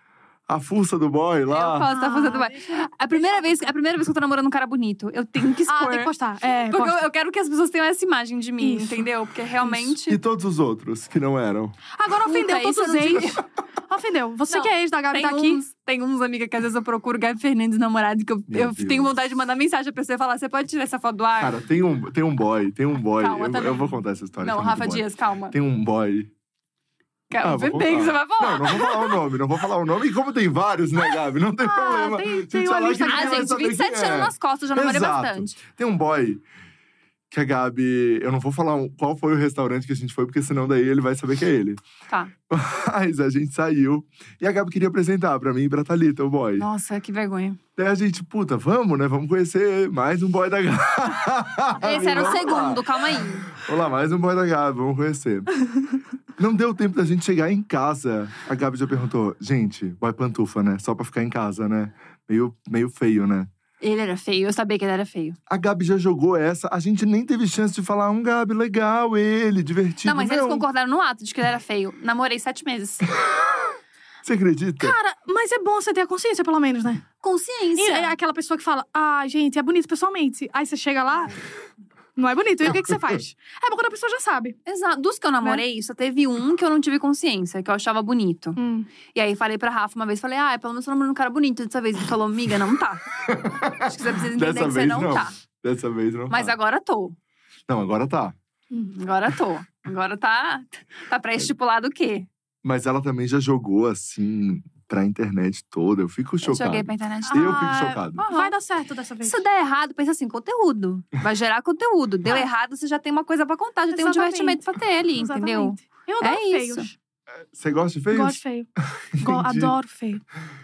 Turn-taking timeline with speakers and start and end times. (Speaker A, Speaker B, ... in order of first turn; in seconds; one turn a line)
Speaker A: 0.5-1.9
Speaker B: 1.5-10.2
Speaker C: 1.9-3.7
Speaker C: 5.7-7.0
Speaker C: 8.6-9.1
Speaker A: 10.1-11.7
Speaker C: 12.0-15.6
Speaker B: 12.2-13.4
Speaker B: 14.5-21.6
Speaker A: 18.5-19.1
Speaker A: 21.4-26.3
Speaker B: 23.1-25.6
Speaker B: 27.3-29.2
Speaker A: 27.4-36.4
Speaker C: 31.6-33.6
Speaker B: 33.1-35.6
Speaker A: 37.3-41.8
Speaker A: 42.5-46.6
Speaker B: 46.6-47.6
Speaker A: 47.8-55.5
Speaker B: 51.8-53.5
Speaker A: 56.4-63.5
Speaker B: 63.8-65.4
Speaker A: 65.5-70.6
Speaker B: 70.0-73.1
Speaker A: 74.2-75.0
Speaker C: 74.8-77.0
Speaker B: 77.2-78.1
Speaker C: 77.8-81.4
Speaker C: 82.2-84.6
Speaker B: 84.7-88.6
Speaker C: 88.6-88.9
Speaker B: 89.1-93.0
Speaker A: 93.1-96.5
Speaker B: 93.8-95.3
Speaker B: 96.3-97.2
Speaker A: 97.7-98.3
Speaker B: 98.9-102.3
Speaker A: 102.6-108.2
Speaker B: 106.4-108.5
Speaker C: 107.3-109.4
Speaker B: 109.2-116.9
Speaker C: 113.9-114.6
Speaker C: 115.2-116.9
Speaker A: 117.5-118.4
Speaker C: 118.1-118.7
Speaker A: 119.1-119.7
Speaker C: 119.2-120.2